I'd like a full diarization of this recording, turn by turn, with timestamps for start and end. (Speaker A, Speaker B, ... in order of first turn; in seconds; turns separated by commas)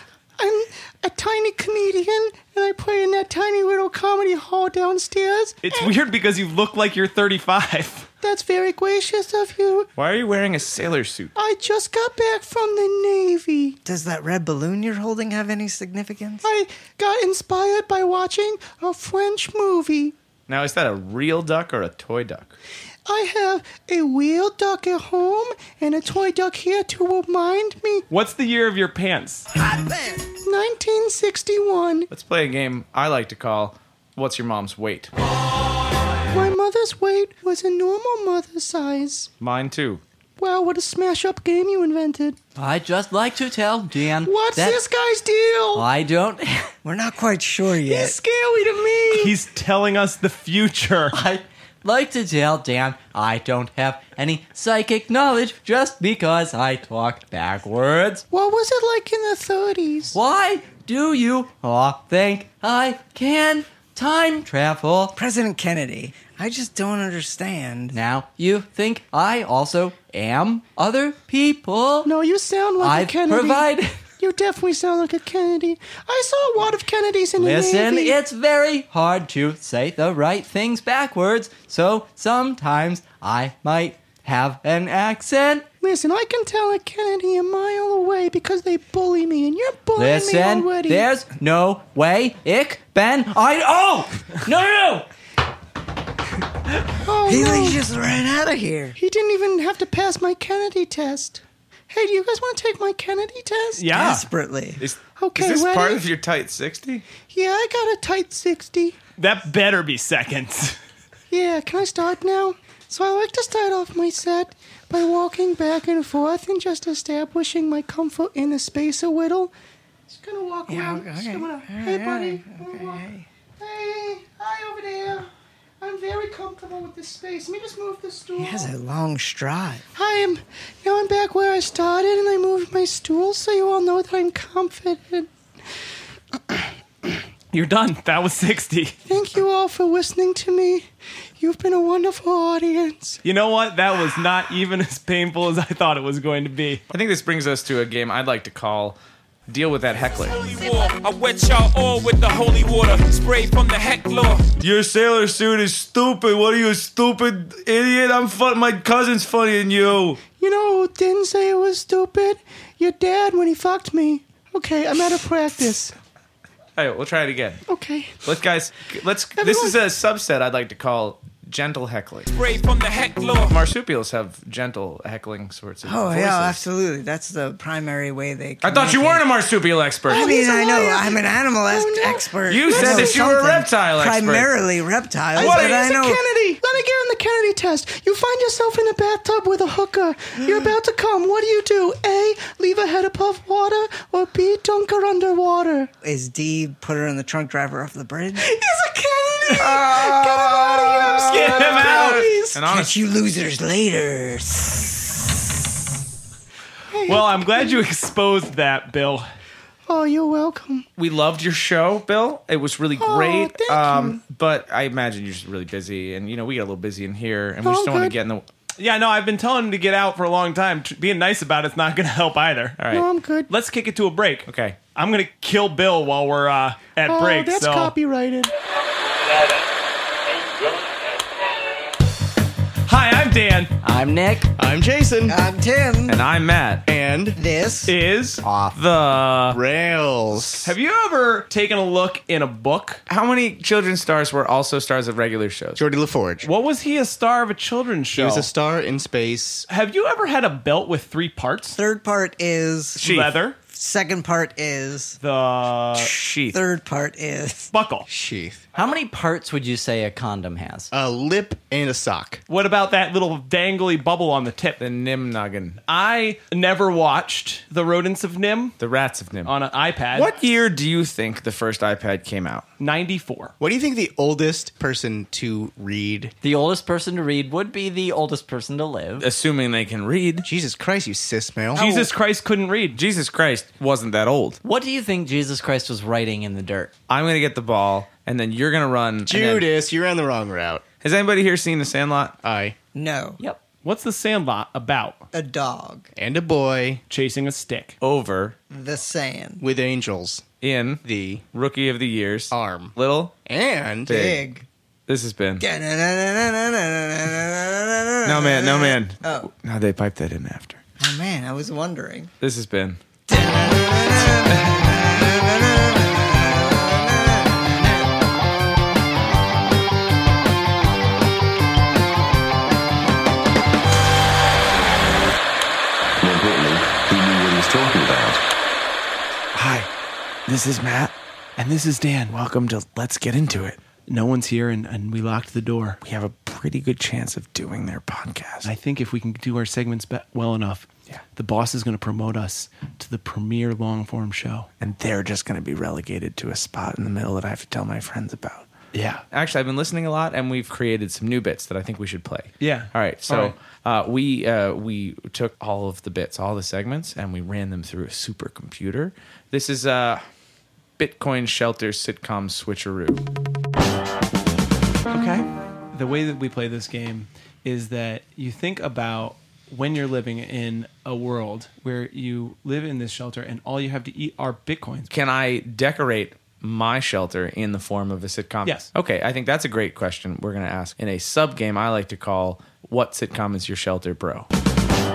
Speaker A: 0.4-6.0, Speaker B: 5.6-8.1, Speaker A: 8.2-9.9, Speaker C: 10.0-11.3, Speaker A: 11.3-13.8, Speaker D: 13.8-16.4, Speaker A: 16.4-20.1, Speaker C: 20.5-22.6, Speaker A: 23.1-28.0, Speaker B: 28.1-29.5, Speaker D: 29.6-30.3, Speaker A: 30.3-32.1, Speaker C: 32.1-35.1, Speaker A: 36.3-39.3, Speaker C: 39.4-40.0, Speaker A: 40.4-42.4, Speaker E: 42.5-44.8, Speaker A: 44.2-45.9, Speaker E: 45.7-46.7, Speaker D: 46.8-48.2, Speaker A: 47.8-49.4, Speaker B: 49.1-51.2, Speaker E: 51.1-58.2, Speaker A: 58.3-60.2, Speaker E: 60.1-65.2, Speaker D: 65.2-68.0, Speaker E: 67.9-72.1, Speaker A: 72.0-78.2, Speaker E: 72.8-74.0, Speaker E: 77.4-85.7, Speaker A: 85.8-91.1, Speaker E: 90.0-95.1, Speaker A: 97.0-97.8, Speaker D: 97.2-98.9, Speaker A: 98.9-104.0, Speaker B: 103.8-104.2, Speaker D: 103.9-104.8, Speaker C: 104.8-107.0, Speaker A: 105.0-106.0, Speaker A: 107.3-109.0, Speaker B: 109.2-110.8, Speaker A: 111.3-119.5, Speaker A: 120.1-123.0, Speaker D: 120.7-123.3, Speaker A: 123.6-125.3, Speaker A: 125.8-128.7, Speaker D: 128.4-129.8, Speaker A: 129.9-135.3, Speaker B: 137.5-139.0, Speaker A: 139.1-140.8, Speaker A: 141.4-143.2, Speaker B: 143.2-146.8, Speaker C: 146.9-150.6, Speaker F: 150.5-154.5, Speaker C: 154.5-160.2, Speaker A: 160.4-165.9, Speaker C: 166.8-167.6, Speaker A: 167.7-168.2, Speaker C: 168.2-172.3, Speaker A: 169.3-169.8, Speaker F: 172.3-173.6, Speaker C: 173.5-176.6, Speaker D: 175.8-179.2, Speaker C: 178.6-180.3, Speaker A: 180.1-183.2, Speaker D: 180.1-186.2, Speaker C: 182.4-184.6, Speaker A: 185.3-195.9, Speaker C: 185.3-185.9, Speaker D: 190.4-190.7, Speaker D: 196.0-198.5, Speaker A: 198.4-201.7, Speaker G: 199.8-200.3, Speaker D: 200.7-205.5, Speaker B: 201.2-202.2, Speaker C: 201.6-203.0, Speaker A: 202.2-202.5, Speaker A: 206.9-207.8, Speaker B: 207.1-209.2, Speaker A: 209.9-210.8, Speaker C: 211.0-218.5, Speaker A: 212.9-214.2, Speaker A: 217.6-218.2, Speaker B: 218.8-222.8, Speaker C: 222.8-223.1, Speaker A: 222.9-223.5, Speaker B: 223.5-227.9, Speaker C: 224.5-224.8, Speaker A: 227.0-228.5, Speaker B: 232.8-233.7, Speaker E: 233.8-234.5, Speaker G: 234.6-235.4, Speaker D: 235.3-236.2, Speaker C: 236.1-236.8, Speaker G: 236.8-237.4, Speaker D: 237.3-237.9, Speaker B: 237.9-238.4, Speaker E: 238.4-238.8, Speaker C: 238.7-239.6, Speaker G: 239.5-240.7, Speaker B: 240.6-243.0, Speaker C: 243.1-245.8, Speaker G: 245.8-246.5, Speaker B: 246.4-248.5, Speaker G: 248.1-249.7, Speaker B: 249.7-251.8, Speaker D: 251.8-253.0, Speaker B: 252.9-253.6, Speaker C: 253.0-253.4, Speaker D: 253.7-255.2, Speaker B: 255.2-256.1, Speaker C: 256.0-256.6, Speaker D: 256.5-257.7, Speaker B: 257.7-258.1, Speaker G: 258.1-258.6, Speaker E: 258.8-260.9, Speaker G: 260.9-262.4, Speaker B: 262.5-264.8, Speaker C: 264.8-265.8, Speaker B: 265.9-268.8, Speaker C: 268.8-269.5, Speaker B: 269.4-270.3, Speaker C: 270.2-272.6, Speaker B: 272.8-273.5, Speaker G: 273.6-276.3, Speaker E: 276.4-279.2, Speaker C: 279.2-280.5, Speaker G: 280.4-281.9, Speaker B: 281.8-283.0, Speaker C: 281.8-282.1, Speaker C: 282.9-284.6, Speaker E: 284.6-286.9, Speaker C: 287.1-289.7, Speaker G: 289.2-290.8, Speaker C: 291.0-292.4, Speaker G: 292.4-292.8, Speaker D: 292.9-293.4, Speaker B: 293.8-295.2, Speaker D: 295.3-296.1, Speaker G: 296.1-297.0, Speaker B: 297.1-297.9, Speaker C: 298.0-298.6, Speaker D: 298.7-299.6, Speaker G: 299.6-300.4, Speaker C: 300.6-303.3, Speaker G: 301.0-301.4, Speaker G: 302.5-302.9, Speaker G: 303.4-304.3, Speaker C: 304.1-304.4, Speaker D: 304.1-304.6, Speaker C: 305.1-305.6, Speaker D: 305.6-309.5, Speaker C: 308.2-310.8, Speaker D: 311.0-312.3, Speaker C: 312.4-313.0, Speaker D: 313.3-318.1, Speaker H: 326.2-328.4, Speaker C: 329.5-329.9, Speaker C: 330.5-331.1, Speaker B: 331.6-332.4, Speaker C: 332.3-333.8, Speaker B: 334.1-336.0, Speaker C: 336.0-338.7, Speaker B: 338.6-344.7, Speaker C: 344.8-348.7, Speaker B: 348.9-349.2, Speaker C: 349.3-360.2, Speaker B: 352.6-353.6, Speaker C: 361.0-363.2, Speaker B: 365.1-375.1, Speaker C: 375.1-384.5, Speaker B: 378.6-378.9